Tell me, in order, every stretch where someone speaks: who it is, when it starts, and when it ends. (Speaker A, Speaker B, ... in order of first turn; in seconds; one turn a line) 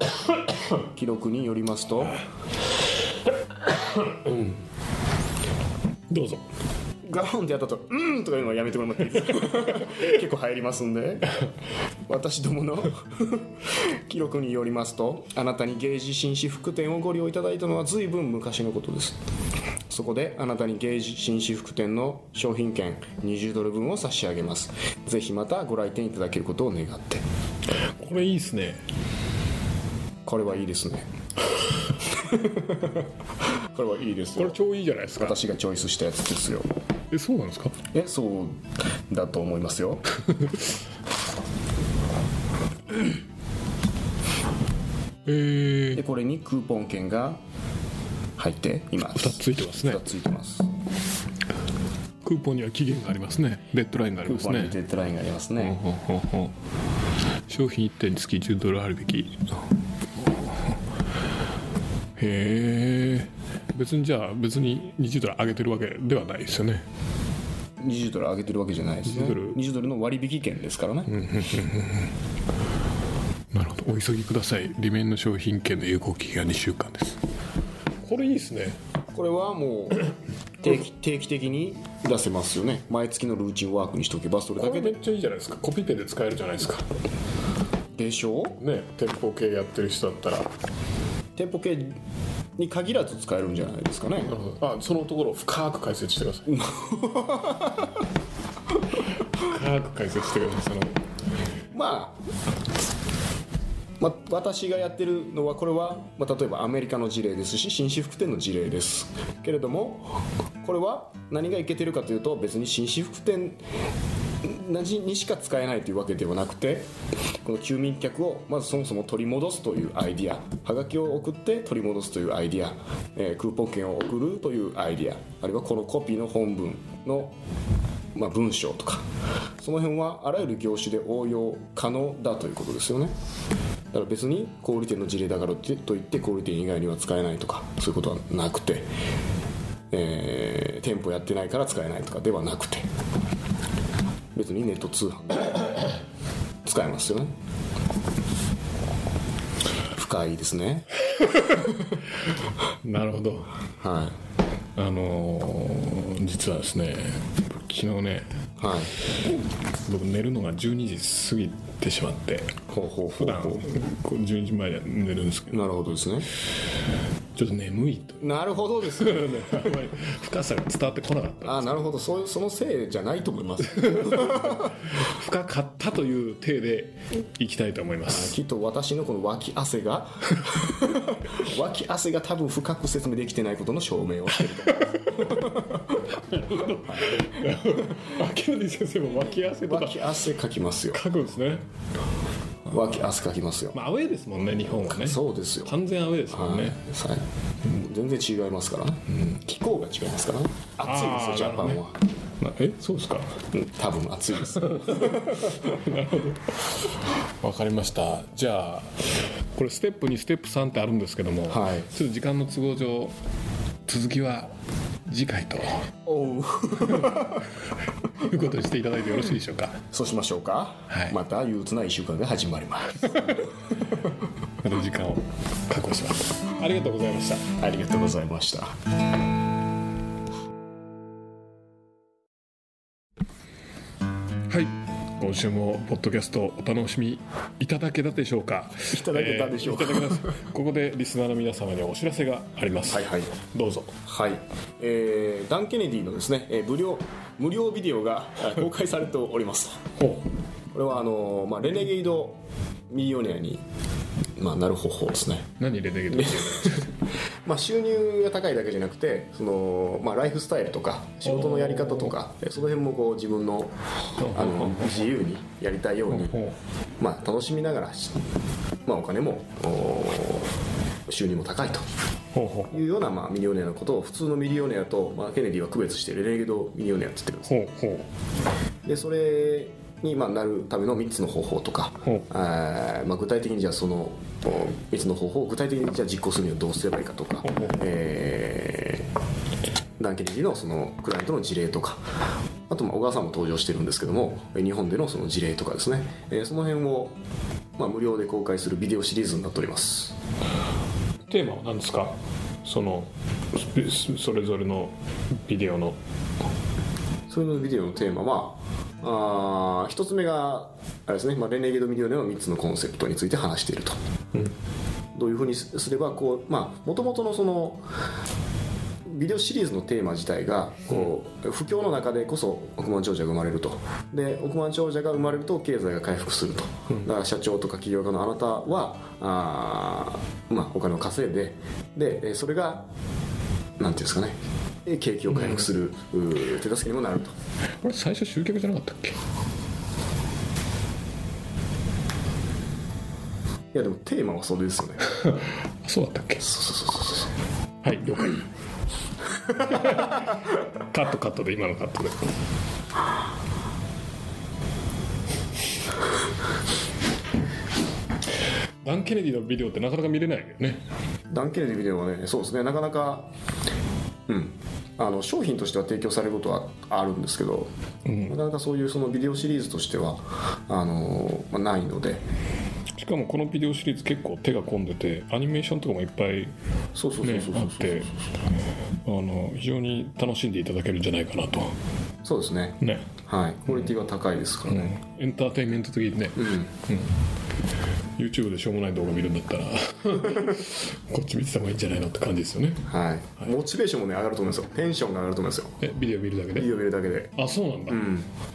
Speaker A: 0.9-2.2
Speaker B: 4.0-4.5
Speaker B: 6.1-6.4
Speaker A: 7.0-11.4
Speaker A: 12.1-19.2
Speaker A: 19.9-27.2
Speaker B: 28.0-28.8
Speaker A: 30.2-31.1
Speaker A: 32.0-33.1
Speaker A: 33.7-34.6
Speaker B: 34.4-35.4
Speaker A: 35.1-36.7
Speaker B: 37.1-37.8
Speaker A: 37.9-40.0
Speaker B: 40.3-40.6
Speaker B: 45.2-46.0
Speaker A: 45.9-47.4
Speaker A: 48.4-50.7
Speaker B: 49.1-50.0
Speaker B: 52.2-54.8
Speaker A: 54.2-55.8
Speaker B: 55.6-56.5
Speaker B: 57.5-59.5
Speaker B: 62.2-66.8
Speaker A: 67.8-71.2
Speaker B: 69.0-69.6
Speaker B: 71.1-72.1
Speaker B: 73.5-77.2
Speaker B: 78.0-78.8
Speaker A: 79.1-80.1
Speaker A: 80.6-85.0
Speaker B: 84.6-86.9
Speaker A: 87.9-88.6
Speaker B: 88.6-90.5
Speaker A: 91.4-92.0
Speaker A: 92.5-94.4
Speaker B: 94.2-96.5
Speaker A: 96.5-98.0
Speaker B: 99.3-101.0
Speaker A: 101.7-102.2
Speaker A: 104.0-113.6
Speaker A: 114.4-116.9
Speaker A: 117.4-127.3
Speaker A: 128.1-129.1
Speaker A: 129.6-133.1
Speaker A: 133.9-138.9
Speaker A: 139.9-142.9
Speaker A: 144.3-145.8
Speaker A: 146.6-147.3
Speaker A: 149.9-150.9
Speaker B: 151.2-151.6
Speaker A: 151.5-151.8
Speaker B: 152.8-153.5
Speaker A: 153.8-154.2
Speaker B: 154.8-158.3
Speaker A: 158.6-158.9
Speaker B: 159.8-162.6
Speaker A: 162.7-163.7
Speaker B: 163.2-165.7
Speaker A: 165.5-166.3
Speaker B: 167.3-168.2
Speaker A: 168.2-169.5
Speaker B: 168.9-171.8
Speaker A: 171.4-174.7
Speaker B: 173.8-178.3
Speaker A: 178.1-185.8
Speaker B: 184.6-190.0
Speaker A: 186.9-187.2
Speaker A: 189.6-191.0
Speaker B: 190.9-191.6
Speaker A: 192.7-193.8
Speaker B: 193.7-196.8
Speaker A: 194.9-195.8
Speaker A: 196.3-202.0
Speaker B: 200.8-201.8
Speaker B: 202.4-203.3
Speaker A: 203.5-205.6
Speaker B: 204.6-213.1
Speaker A: 211.5-211.9
Speaker B: 213.8-214.5
Speaker B: 215.1-215.8
Speaker A: 216.0-217.4
Speaker B: 216.9-217.3
Speaker B: 218.1-219.8
Speaker A: 219.9-223.4
Speaker B: 220.9-221.2
Speaker B: 223.0-223.5
Speaker B: 224.6-227.5
Speaker A: 227.6-228.8
Speaker B: 234.5-244.0
Speaker A: 238.9-240.3
Speaker A: 242.9-243.3
Speaker A: 244.1-249.8
Speaker B: 250.0-250.2
Speaker A: 250.7-253.6
Speaker A: 254.4-255.5
Speaker B: 255.6-256.9
Speaker A: 256.1-266.4
Speaker B: 261.2-262.1
Speaker B: 264.2-265.0
Speaker B: 266.1-266.5
Speaker A: 267.0-268.2
Speaker A: 268.9-270.5
Speaker A: 271.1-271.8
Speaker B: 272.3-272.7
Speaker A: 272.7-277.6
Speaker B: 277.4-278.1
Speaker A: 278.8-289.1
Speaker B: 287.4-287.8
Speaker A: 290.0-292.0
Speaker A: 292.7-297.2
Speaker A: 297.8-300.2
Speaker B: 301.3-306.0
Speaker A: 307.3-314.0
Speaker A: 315.1-317.9
Speaker A: 319.0-332.9
Speaker A: 333.8-337.3
Speaker B: 335.3-335.6
Speaker B: 337.8-339.2
Speaker A: 343.7-345.1
Speaker B: 345.1-346.5
Speaker A: 346.4-347.3
Speaker B: 347.8-348.5
Speaker B: 349.6-352.2
Speaker B: 358.8-360.8
Speaker A: 361.3-363.3
Speaker A: 364.3-367.7
Speaker B: 368.1-368.4
Speaker A: 368.2-372.2
Speaker B: 373.0-376.5
Speaker A: 376.9-378.1
Speaker B: 377.2-378.1
Speaker B: 379.0-381.8
Speaker A: 382.2-384.9
Speaker B: 382.8-383.1
Speaker B: 384.7-387.1
Speaker A: 386.4-386.7
Speaker B: 388.2-392.9
Speaker A: 392.9-395.8
Speaker B: 395.8-396.7
Speaker A: 396.5-397.3
Speaker B: 397.4-398.1
Speaker A: 397.9-398.3